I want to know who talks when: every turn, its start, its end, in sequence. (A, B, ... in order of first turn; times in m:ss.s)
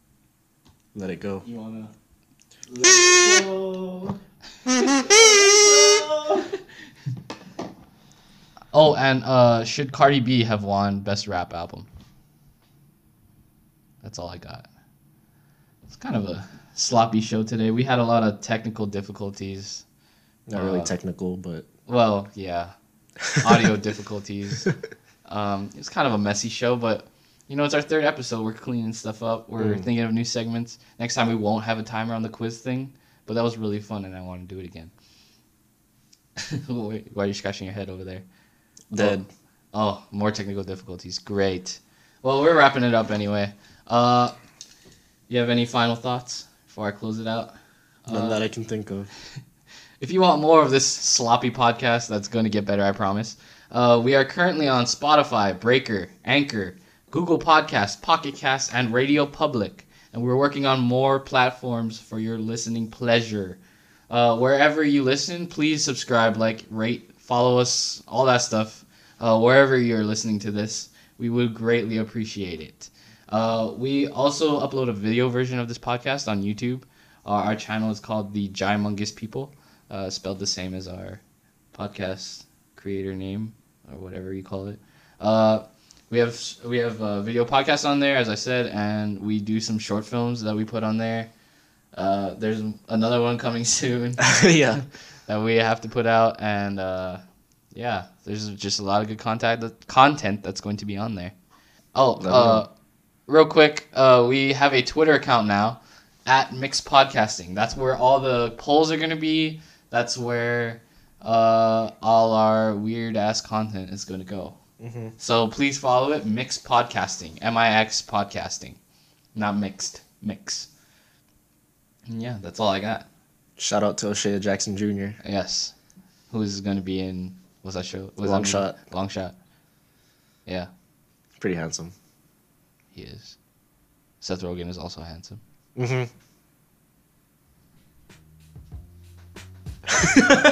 0:00.9-0:01.4 A
0:01.4-0:01.9 B
0:02.7-0:04.2 B
0:04.9-0:06.5 B
0:08.7-0:11.9 C
0:14.0-0:14.7 C
0:15.9-0:19.8 C
0:20.5-0:21.7 A
0:20.5-0:20.9 C
0:21.9-0:22.7 C
0:23.3-0:24.7 C
0:25.3-0:34.9 C
0:29.6-0:29.8 A
0:36.4-0:38.2 C
0:38.9-0:39.2 A
0:38.9-0:44.3 C
0:45.3-0:47.5 C
0:48.0-0:48.4 C
0:48.1-0:49.1 A
0:50.0-1:21.2 C
1:21.7-1:31.3 C
1:31.9-1:41.4 C
1:34.2-1:34.8 A
1:41.9-1:42.7 C
1:42.2-1:42.6 A
1:43.3-1:54.6 C
1:54.8-1:55.1 A
1:55.2-1:58.8 C
1:59.4-2:00.7 C
2:02.1-2:03.1 C
2:03.6-2:05.2 A
2:05.2-2:05.7 C
2:06.3-2:09.4 C
2:08.2-2:08.8 A
2:10.5-2:10.7 C
2:11.4-2:11.9 A
2:12.9-2:13.4 C
2:14.2-2:15.4 C
2:15.8-2:16.1 A
2:20.0-2:20.4 A